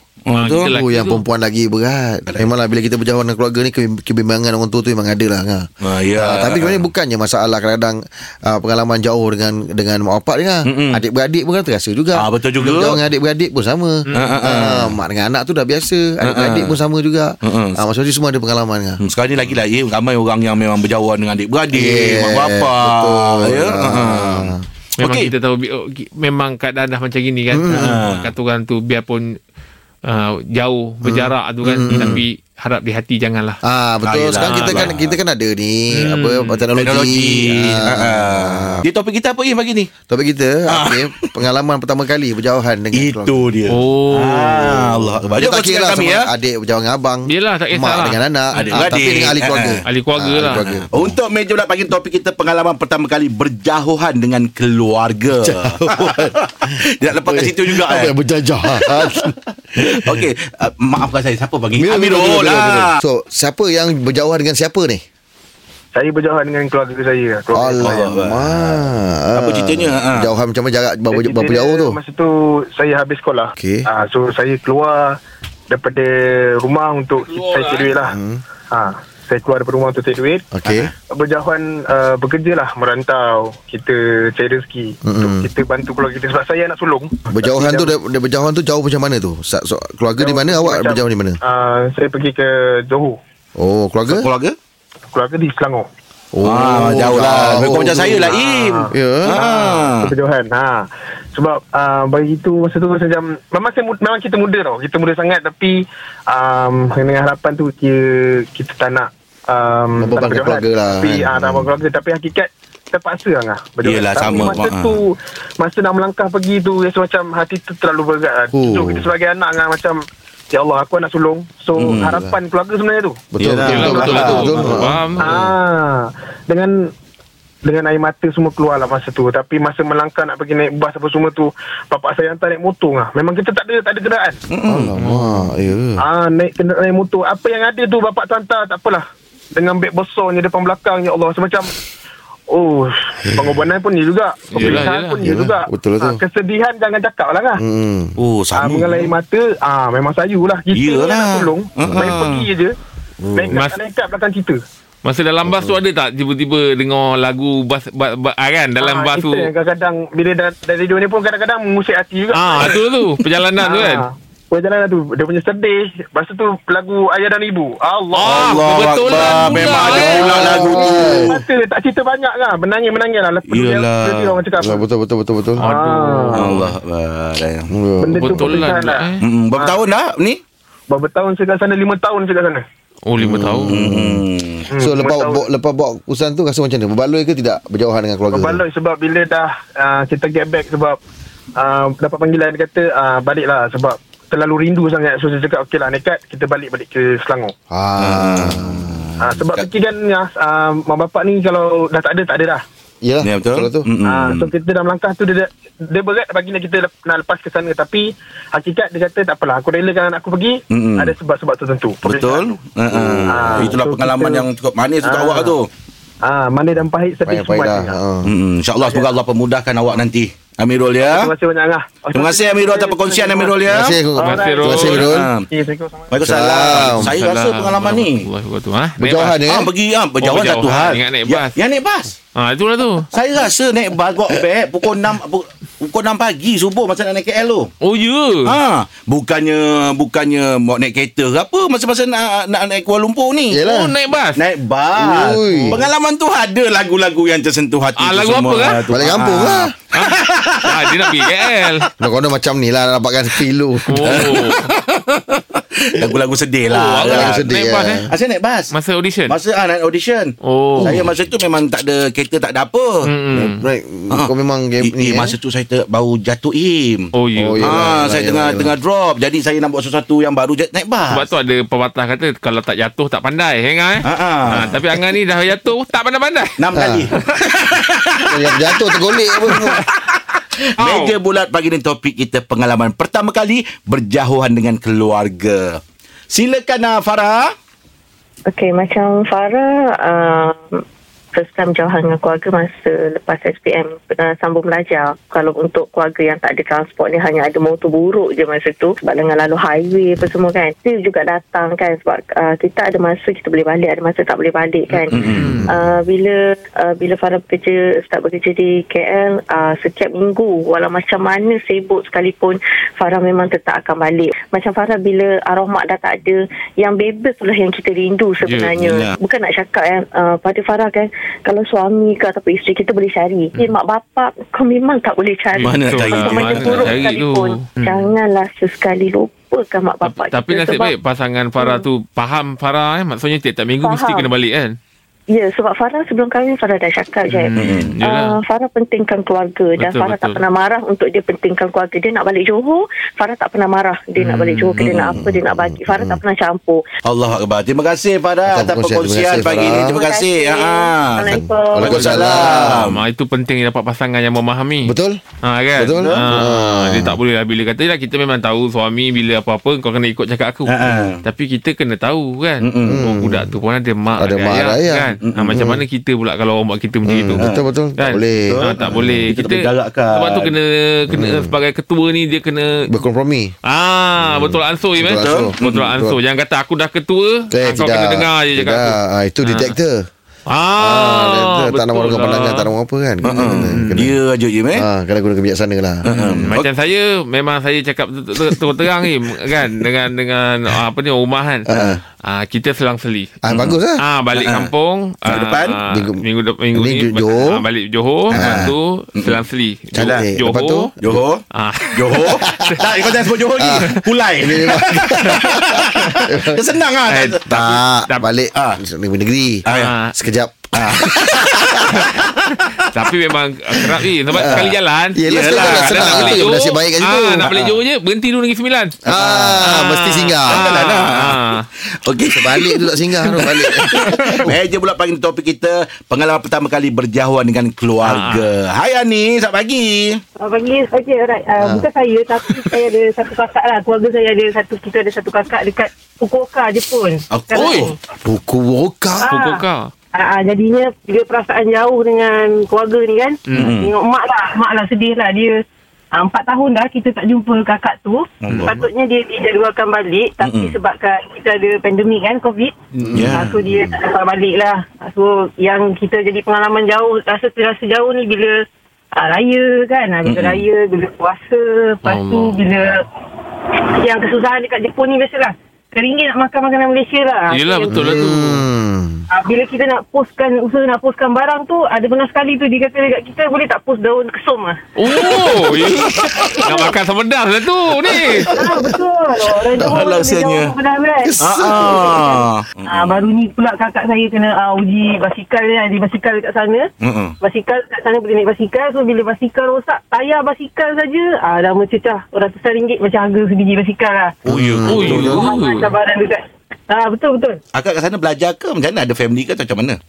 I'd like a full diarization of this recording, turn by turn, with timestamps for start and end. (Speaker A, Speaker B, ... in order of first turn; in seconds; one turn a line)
Speaker A: 0.3-0.7
Speaker B: 0.4-1.2
Speaker C: 0.7-19.0
Speaker A: 5.8-6.8
Speaker A: 10.7-11.0
Speaker A: 12.2-13.0
Speaker B: 14.1-14.4
Speaker A: 14.1-15.0
Speaker A: 16.2-16.8
Speaker A: 17.4-17.8
Speaker A: 19.0-25.3
Speaker C: 21.7-24.6
Speaker B: 25.0-29.4
Speaker C: 27.5-28.0
Speaker A: 27.7-28.3
Speaker B: 30.1-33.6
Speaker C: 31.0-32.2
Speaker A: 31.9-32.2
Speaker C: 33.6-38.9
Speaker A: 34.0-35.2
Speaker B: 34.4-34.9
Speaker B: 36.0-36.7
Speaker A: 36.8-39.9
Speaker C: 40.1-43.5
Speaker A: 40.7-41.4
Speaker A: 42.9-46.3
Speaker B: 43.7-44.9
Speaker C: 44.8-51.2
Speaker B: 47.3-48.8
Speaker A: 48.6-49.8
Speaker B: 49.9-50.7
Speaker A: 50.6-58.1
Speaker C: 55.4-60.3
Speaker A: 58.7-63.0
Speaker C: 61.8-65.0
Speaker D: 65.9-68.1
Speaker C: 67.5-72.0
Speaker A: 67.8-68.8
Speaker A: 69.3-70.3
Speaker D: 71.1-75.2
Speaker C: 73.6-73.8
Speaker D: 75.7-78.1
Speaker B: 77.2-78.0
Speaker C: 78.1-78.4
Speaker D: 78.7-80.5
Speaker C: 80.5-80.9
Speaker A: 80.7-80.9
Speaker D: 81.1-87.9
Speaker C: 85.0-85.4
Speaker C: 87.3-91.4
Speaker D: 90.2-93.2
Speaker C: 93.6-94.3
Speaker A: 94.1-94.6
Speaker D: 95.1-95.9
Speaker C: 96.3-98.3
Speaker A: 96.4-100.1
Speaker D: 98.2-124.2
Speaker C: 98.9-99.4
Speaker C: 110.0-111.7
Speaker A: 113.8-115.0
Speaker C: 118.5-119.0
Speaker A: 121.8-122.2
Speaker C: 121.9-122.3
Speaker C: 123.3-125.5
Speaker A: 123.4-124.9
Speaker B: 123.7-125.3
Speaker D: 125.2-126.8
Speaker D: 127.6-134.4
Speaker A: 134.5-134.9
Speaker C: 134.7-136.0
Speaker B: 135.0-135.5
Speaker D: 136.0-139.0
Speaker D: 139.5-141.7
Speaker D: 142.5-147.6
Speaker C: 143.3-143.6
Speaker B: 144.5-145.2
Speaker C: 145.2-146.2
Speaker C: 147.6-148.2
Speaker A: 148.2-149.2
Speaker D: 148.6-152.8
Speaker A: 150.7-152.5
Speaker C: 151.8-152.2
Speaker C: 153.2-153.5
Speaker D: 153.3-154.6
Speaker B: 153.5-153.8
Speaker B: 155.0-159.5
Speaker C: 155.4-155.8
Speaker D: 158.8-162.8
Speaker B: 162.3-164.1
Speaker D: 163.6-168.5
Speaker B: 168.2-170.6
Speaker A: 168.2-171.5
Speaker D: 169.3-169.8
Speaker C: 169.8-171.3
Speaker D: 170.6-174.8
Speaker A: 173.4-174.4
Speaker C: 174.6-175.7
Speaker B: 175.6-176.7
Speaker D: 175.6-176.5
Speaker A: 176.4-177.7
Speaker C: 177.7-178.6
Speaker D: 178.0-179.8
Speaker B: 178.2-179.2
Speaker A: 179.2-180.4
Speaker D: 180.9-182.6
Speaker B: 183.1-183.8
Speaker C: 183.2-184.2
Speaker A: 183.7-184.7
Speaker D: 184.7-185.4
Speaker C: 184.8-188.6
Speaker D: 188.3-191.0
Speaker D: 191.6-197.5
Speaker C: 197.7-199.2
Speaker A: 198.0-199.2
Speaker D: 199.2-202.6
Speaker C: 203.0-203.9
Speaker A: 203.2-204.5
Speaker D: 204.0-212.4
Speaker A: 210.7-211.1
Speaker A: 212.0-215.7
Speaker C: 212.9-213.8
Speaker D: 213.3-214.5
Speaker D: 215.0-215.6
Speaker D: 216.2-218.0
Speaker C: 217.3-218.3
Speaker A: 218.2-221.3
Speaker D: 218.8-219.1
Speaker D: 221.0-223.6
Speaker A: 222.1-224.0
Speaker C: 223.7-225.3
Speaker D: 224.2-226.2
Speaker B: 224.2-225.2
Speaker A: 224.6-225.5
Speaker A: 226.1-228.3
Speaker C: 226.2-227.2
Speaker B: 226.9-229.4
Speaker C: 229.0-229.7
Speaker A: 229.4-232.2
Speaker B: 230.2-231.6
Speaker B: 232.3-233.1
Speaker A: 233.1-237.7
Speaker B: 237.8-238.6
Speaker A: 238.4-243.6
Speaker C: 243.5-243.9
Speaker B: 243.6-244.4
Speaker A: 244.4-251.9
Speaker C: 245.0-245.9
Speaker B: 248.0-248.9
Speaker C: 248.9-249.7
Speaker B: 249.9-251.9
Speaker C: 252.0-254.4
Speaker B: 253.9-254.7
Speaker A: 254.0-257.5
Speaker B: 256.7-258.1
Speaker C: 257.0-258.1
Speaker A: 258.1-258.7
Speaker B: 258.7-259.4
Speaker A: 259.3-263.1
Speaker B: 260.4-261.0
Speaker C: 260.8-261.1
Speaker B: 263.1-263.6
Speaker C: 263.3-265.3
Speaker A: 264.8-271.3
Speaker B: 267.1-267.8
Speaker C: 267.4-268.7
Speaker B: 271.1-276.6
Speaker A: 274.0-274.8
Speaker C: 274.5-274.8
Speaker A: 276.6-287.5
Speaker C: 276.7-277.1
Speaker C: 278.3-279.8
Speaker B: 280.8-281.2
Speaker E: 288.5-290.8
Speaker E: 291.4-330.9
Speaker B: 304.9-305.7
Speaker A: 305.1-305.7
Speaker B: 318.4-318.7
Speaker A: 318.8-319.1
Speaker B: 325.6-328.1
Speaker A: 325.6-327.0
Speaker B: 330.1-334.8
Speaker E: 331.6-331.9
Speaker E: 333.8-334.3
Speaker E: 335.3-346.8
Speaker B: 337.3-338.4
Speaker A: 337.6-337.9
Speaker B: 339.8-340.4
Speaker B: 344.2-344.9
Speaker A: 344.8-345.2
Speaker C: 345.1-346.2
Speaker A: 347.1-353.0
Speaker C: 348.5-350.0
Speaker E: 349.4-352.6
Speaker C: 351.3-352.9
Speaker B: 352.7-372.9
Speaker C: 354.9-355.2
Speaker C: 355.8-357.2
Speaker A: 355.9-356.3
Speaker A: 360.7-361.2
Speaker A: 362.6-363.0
Speaker C: 362.9-363.5
Speaker C: 364.2-365.8
Speaker A: 365.2-365.6
Speaker C: 367.1-369.3
Speaker A: 367.4-367.6
Speaker A: 368.5-370.5
Speaker C: 371.1-371.6
Speaker C: 372.9-373.6
Speaker B: 373.6-379.8
Speaker C: 374.2-376.2
Speaker A: 375.2-375.8
Speaker C: 377.5-380.1
Speaker B: 380.5-382.7
Speaker C: 380.8-384.2
Speaker A: 383.2-384.9
Speaker B: 383.7-384.0
Speaker C: 384.8-386.4
Speaker A: 386.1-386.7
Speaker B: 386.1-400.9
Speaker C: 391.7-392.0
Speaker A: 391.7-392.0
Speaker C: 393.4-394.0
Speaker A: 394.3-394.7
Speaker A: 395.2-395.8
Speaker C: 395.9-397.6
Speaker A: 398.3-399.4
Speaker C: 398.3-398.7
Speaker C: 399.9-401.2
Speaker A: 399.9-400.3
Speaker A: 401.0-401.4
Speaker B: 401.5-402.9
Speaker A: 401.9-407.6
Speaker C: 402.2-402.7
Speaker C: 403.6-406.8
Speaker B: 403.8-404.1
Speaker B: 405.3-405.6
Speaker B: 407.1-408.3
Speaker C: 407.5-411.7
Speaker A: 408.5-408.8
Speaker A: 409.7-409.9
Speaker B: 409.7-410.1
Speaker A: 410.8-412.3
Speaker B: 411.9-421.7
Speaker A: 414.3-414.7
Speaker C: 414.3-417.7
Speaker A: 415.3-416.5
Speaker A: 417.4-417.8
Speaker C: 419.1-420.7
Speaker A: 419.1-419.6
Speaker A: 420.5-421.4
Speaker A: 422.1-430.2
Speaker C: 422.3-424.6
Speaker B: 423.9-424.6
Speaker B: 428.0-428.5
Speaker F: 430.4-437.9
Speaker C: 431.6-431.9
Speaker A: 437.3-437.9
Speaker B: 437.6-437.9
Speaker C: 438.2-439.3
Speaker F: 439.2-445.6
Speaker B: 439.2-439.9
Speaker B: 443.5-443.8
Speaker A: 443.5-443.9
Speaker F: 446.1-452.7
Speaker A: 448.4-448.9
Speaker B: 448.5-448.8
Speaker A: 450.4-450.8
Speaker B: 453.0-453.3
Speaker A: 453.1-453.9
Speaker C: 453.1-453.4
Speaker F: 453.3-458.6
Speaker F: 459.1-463.1
Speaker A: 460.2-460.6
Speaker B: 462.0-462.6
Speaker F: 463.7-468.2
Speaker B: 467.5-468.7
Speaker C: 467.9-469.2
Speaker F: 469.3-475.8
Speaker B: 475.0-478.5
Speaker A: 475.5-476.8
Speaker F: 476.5-476.9
Speaker A: 478.1-478.5
Speaker F: 478.5-482.3
Speaker A: 479.5-480.8
Speaker C: 479.8-480.0
Speaker C: 481.2-482.4
Speaker A: 481.4-483.3
Speaker F: 482.9-486.9
Speaker A: 487.0-487.4
Speaker F: 487.4-494.4
Speaker A: 494.5-495.2
Speaker C: 494.5-495.5
Speaker B: 494.9-495.9
Speaker F: 495.0-497.6
Speaker A: 497.7-500.0